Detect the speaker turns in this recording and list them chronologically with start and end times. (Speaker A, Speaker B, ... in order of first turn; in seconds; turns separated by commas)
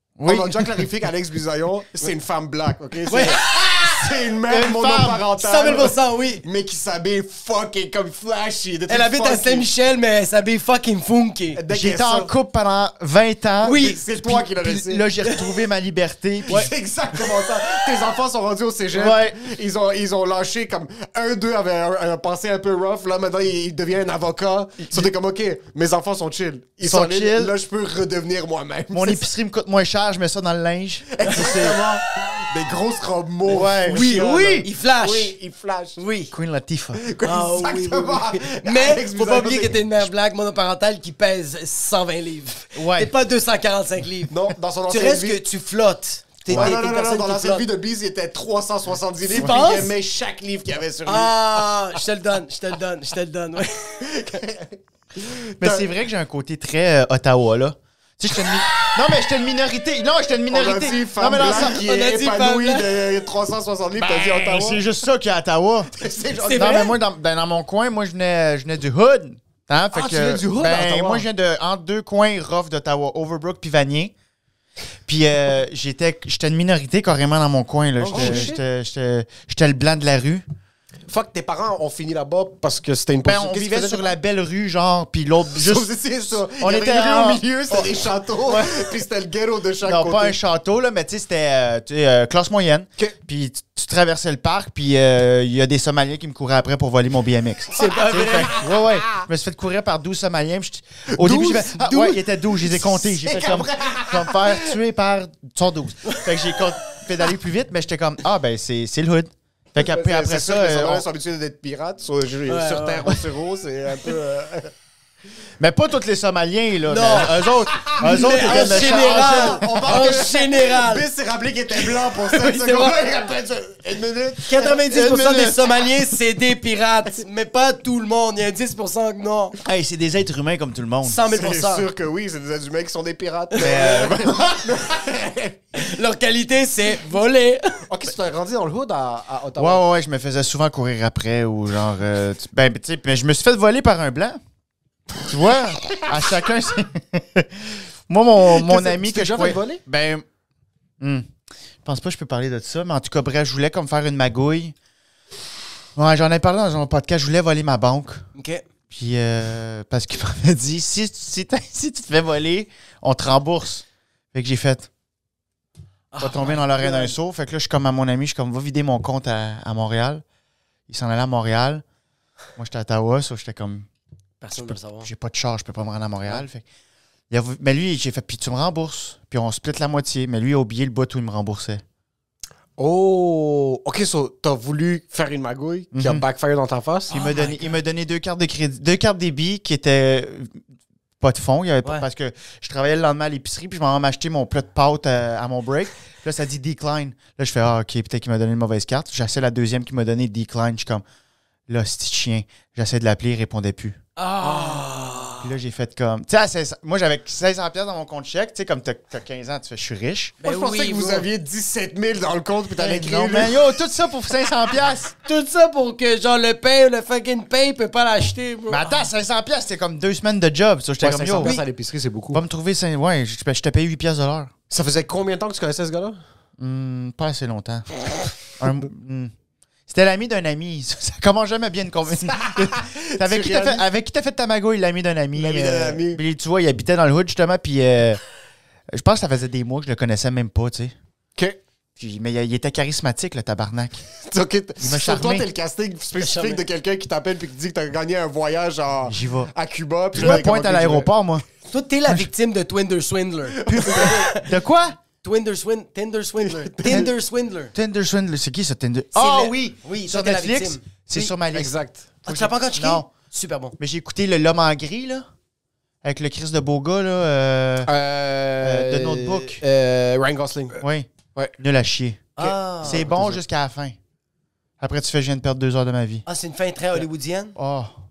Speaker A: 0.2-0.9, Speaker B: 0.2-9.7, Speaker C: 3.1-3.9, Speaker A: 4.5-5.2, Speaker C: 5.4-6.4, Speaker C: 8.9-11.6, Speaker B: 11.5-12.3, Speaker A: 11.7-16.7, Speaker B: 13.6-15.1, Speaker C: 13.6-14.0, Speaker B: 16.5-29.2, Speaker A: 18.9-19.4, Speaker A: 26.8-27.5, Speaker A: 28.9-31.8, Speaker B: 31.1-36.0, Speaker A: 33.5-34.7, Speaker C: 33.9-35.3, Speaker C: 36.0-36.3, Speaker A: 36.3-37.0, Speaker B: 37.0-39.8, Speaker C: 37.2-44.3, Speaker A: 42.7-43.1, Speaker B: 44.3-45.4, Speaker C: 44.9-47.7, Speaker A: 46.5-46.7, Speaker B: 46.5-52.0, Speaker C: 49.2-49.9, Speaker C: 51.0-54.1, Speaker B: 54.0-55.9, Speaker A: 55.6-61.8, Speaker B: 60.5-64.8, Speaker C: 61.5-63.0, Speaker A: 63.9-65.9, Speaker B: 65.9-66.9, Speaker C: 66.3-66.9, Speaker A: 66.5-74.1, Speaker B: 69.9-71.2, Speaker A: 75.1-80.4, Speaker C: 78.0-78.6, Speaker B: 78.0-78.6, Speaker B: 81.1-84.1, Speaker A: 83.2-88.8, Speaker B: 85.6-90.4, Speaker A: 89.8-111.0, Speaker C: 97.7-98.6, Speaker B: 98.3-99.2, Speaker B: 101.1-104.8, Speaker B: 109.8-114.7, Speaker C: 112.5-113.1, Speaker A: 115.6-120.1, Speaker C: 116.9-121.0, Speaker B: 117.7-124.8, Speaker C: 121.8-123.0, Speaker C: 124.5-129.6, Speaker A: 124.9-125.6, Speaker A: 129.6-131.2, Speaker C: 131.0-131.9, Speaker B: 131.3-135.6, Speaker C: 133.5-134.1, Speaker A: 133.6-134.3, Speaker C: 135.7-137.8, Speaker B: 137.9-139.8, Speaker A: 139.6-144.4, Speaker A: 145.2-150.2, Speaker B: 148.5-149.8, Speaker A: 151.0-151.2, Speaker A: 151.8-154.7, Speaker A: 155.9-158.2, Speaker C: 158.3-158.6, Speaker A: 158.9-164.9, Speaker C: 166.1-167.1, Speaker A: 166.2-170.2, Speaker A: 170.9-171.8, Speaker A: 172.6-173.8, Speaker C: 174.4-175.1, Speaker A: 174.6-176.6, Speaker A: 177.3-181.8, Speaker B: 182.8-187.1, Speaker A: 185.9-186.2, Speaker C: 187.1-187.8, Speaker A: 187.1-190.6, Speaker A: 191.2-201.0, Speaker A: 201.7-204.0, Speaker C: 204.2-205.5, Speaker B: 204.5-204.8, Speaker A: 205.4-210.4, Speaker C: 210.4-211.3, Speaker B: 210.4-213.6, Speaker A: 212.8-215.1, Speaker C: 215.2-219.1, Speaker A: 218.7-221.5, Speaker B: 221.0-222.4, Speaker A: 222.3-224.5, Speaker B: 224.7-226.2, Speaker A: 226.6-227.9, Speaker A: 228.6-229.3, Speaker A: 229.9-238.2, Speaker B: 232.2-233.8, Speaker B: 235.3-236.2, Speaker A: 238.9-240.9, Speaker A: 242.0-244.0, Speaker B: 244.2-251.1, Speaker A: 244.8-245.5, Speaker C: 246.2-246.6, Speaker A: 249.1-249.5, Speaker A: 250.1-251.4, Speaker C: 251.7-254.5, Speaker B: 253.6-254.2, Speaker A: 253.7-255.0, Speaker C: 255.2-257.7, Speaker B: 256.4-257.1, Speaker A: 257.7-261.7, Speaker C: 259.1-261.3, Speaker B: 261.5-262.2, Speaker C: 262.2-263.7, Speaker A: 262.2-263.1, Speaker A: 263.8-265.2, Speaker A: 266.0-267.9, Speaker B: 267.9-270.8, Speaker A: 268.6-269.6, Speaker A: 270.8-274.0, Speaker C: 272.4-273.2, Speaker B: 272.4-273.4, Speaker A: 274.8-276.2, Speaker C: 276.2-277.6, Speaker A: 277.6-277.9